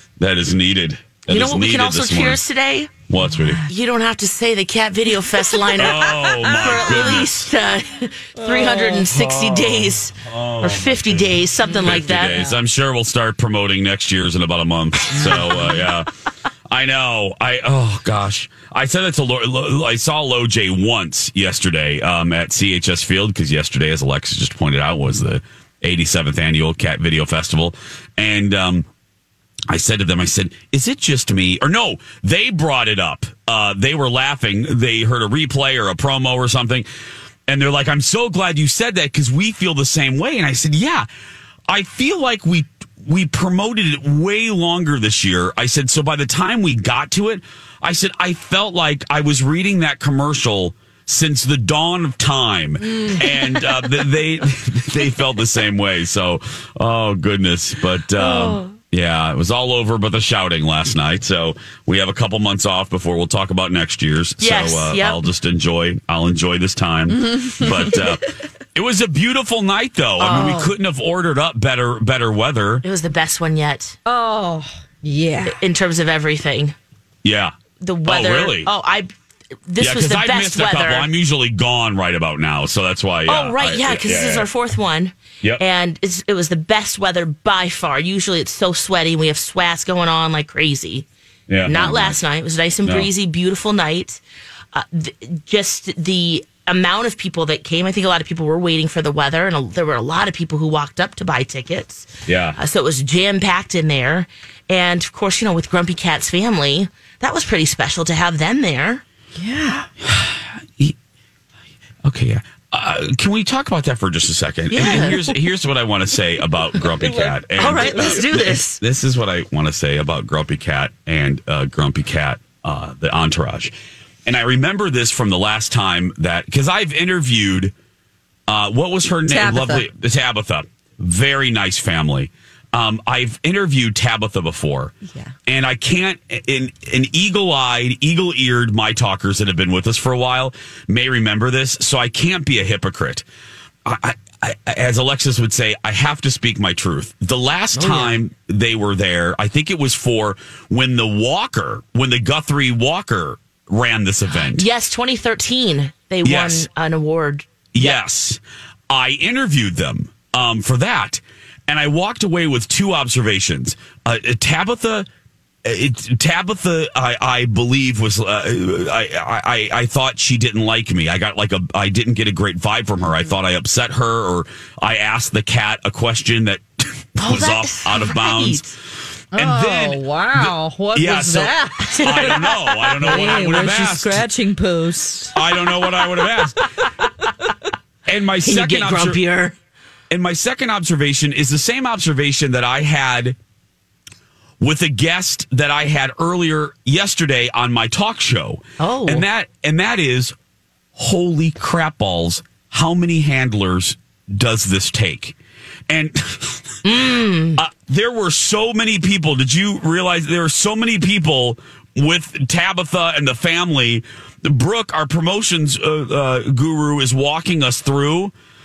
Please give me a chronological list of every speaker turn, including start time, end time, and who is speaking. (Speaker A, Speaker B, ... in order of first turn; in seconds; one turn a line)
Speaker A: 0.2-2.4
Speaker B: 1.3-2.9
Speaker A: 3.1-3.6
Speaker B: 3.6-12.4
Speaker A: 5.7-7.5
Speaker C: 6.1-7.0
Speaker C: 8.4-9.0
Speaker A: 9.1-16.1
Speaker C: 11.7-12.5
Speaker B: 15.2-15.7
Speaker A: 16.7-28.9
Speaker A: 29.7-36.9
Speaker A: 37.5-41.0
Speaker A: 41.7-72.8
Speaker B: 58.1-58.7
Speaker B: 64.4-65.2
Speaker C: 67.2-68.0
Speaker B: 70.2-70.5
Speaker C: 70.2-70.7
Speaker B: 72.8-74.0
Speaker C: 74.1-75.6
Speaker B: 75.4-76.7
Speaker A: 77.2-78.7
Speaker B: 77.8-79.1
Speaker B: 79.7-81.1
Speaker A: 79.8-84.5
Speaker B: 83.3-91.0
Speaker A: 91.5-92.2
Speaker B: 91.7-94.2
Speaker B: 94.7-109.0
Speaker A: 102.3-102.6
Speaker C: 109.4-109.9
Speaker A: 110.0-110.9
Speaker A: 112.0-123.7
Speaker B: 114.7-115.4
Speaker C: 117.0-118.2
Speaker B: 117.6-118.8
Speaker A: 124.2-127.7
Speaker A: 128.5-134.9
Speaker C: 129.3-129.8
Speaker A: 135.5-143.2
Speaker A: 143.8-154.7
Speaker B: 147.7-148.2
Speaker B: 154.3-158.0
Speaker A: 156.2-156.7
Speaker A: 157.7-165.1
Speaker A: 165.6-178.6
Speaker B: 177.2-178.7
Speaker A: 179.3-184.3
Speaker C: 179.3-182.4
Speaker B: 181.9-183.4
Speaker C: 183.0-185.3
Speaker A: 185.3-186.6
Speaker B: 185.6-187.1
Speaker A: 188.1-189.2
Speaker B: 188.4-189.6
Speaker A: 190.1-193.4
Speaker A: 194.6-200.3
Speaker B: 198.8-199.3
Speaker A: 200.9-205.3
Speaker A: 205.9-218.3
Speaker B: 206.8-207.6